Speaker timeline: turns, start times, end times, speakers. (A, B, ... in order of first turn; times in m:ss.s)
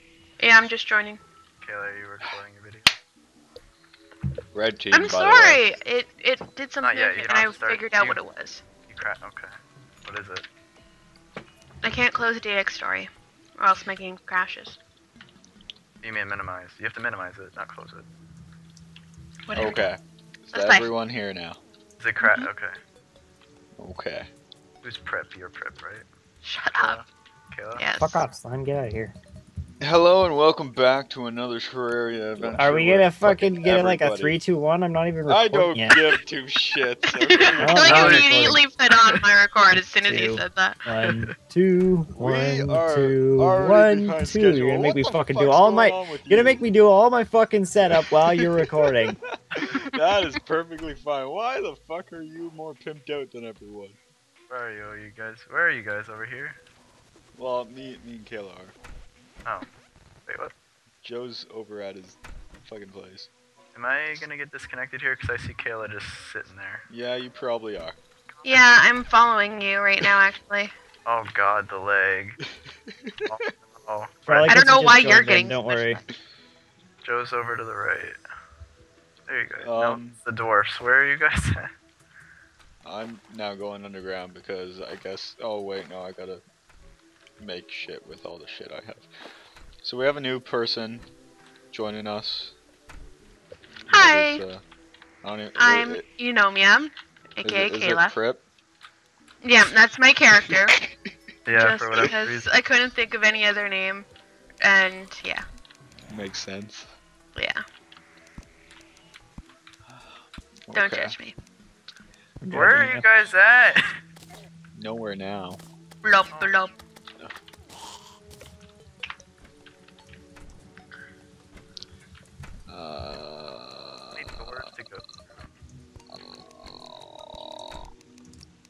0:00.4-0:01.2 A
0:01.6-0:02.9 B
0:04.5-0:05.6 C
0:04.9-0:08.6 A
0:06.8-0:08.2 B
0:08.9-0:09.5 B
0:10.0-0:10.4 B
0:11.8-0:14.8 A
0:16.0-0:18.1 B
0:19.5-0:19.8 A
0:19.5-0:21.6 C
0:20.5-0:20.9 A
0:22.0-0:22.8 B
0:22.2-0:22.5 A
0:23.8-0:24.3 C
0:24.8-0:26.0 B
0:26.4-0:27.0 A
0:26.7-0:27.8 B
0:27.8-0:28.2 A
0:28.0-0:29.1 D
0:29.8-0:34.4 C
0:32.4-0:36.0 D
0:35.3-0:38.1 C
0:37.1-0:40.8 A
0:37.6-0:38.6 D
0:37.8-0:38.3 B
0:40.0-0:49.2 D
0:42.1-0:46.7 C
0:48.0-0:54.0 C
0:54.5-0:56.6 B
0:57.4-0:58.7 C
1:00.3-1:00.5 B
1:01.0-1:03.3 C
1:03.7-1:06.8 B
1:06.9-1:08.0 C
1:08.4-1:10.7 A
1:11.0-1:12.4 B
1:13.3-1:14.5 B
1:14.3-1:16.0 D
1:14.5-1:16.0 A
1:17.0-1:18.2 B
1:19.3-1:21.7 B
1:19.6-1:20.2 C
1:22.8-1:26.4 C
1:27.4-1:29.1 C
1:29.8-1:31.1 C
1:31.7-1:32.5 C
1:33.8-1:34.6 C
1:33.9-1:34.4 A
1:35.2-1:36.0 C
1:35.6-1:38.2 A
1:37.4-1:38.4 C
1:39.4-1:40.7 A
1:41.4-1:42.5 B
1:41.5-1:44.1 A
1:44.6-1:45.4 A
1:46.1-1:46.9 C
1:47.3-1:47.6 A
1:50.7-1:51.2 C
1:50.7-1:51.3 A
1:52.4-1:53.0 D
1:52.5-1:54.0 B
1:54.8-1:55.6 C
1:56.0-1:56.7 A
1:56.3-1:56.6 B
2:02.7-2:04.5 C
2:04.1-2:05.0 B
2:06.1-2:07.5 C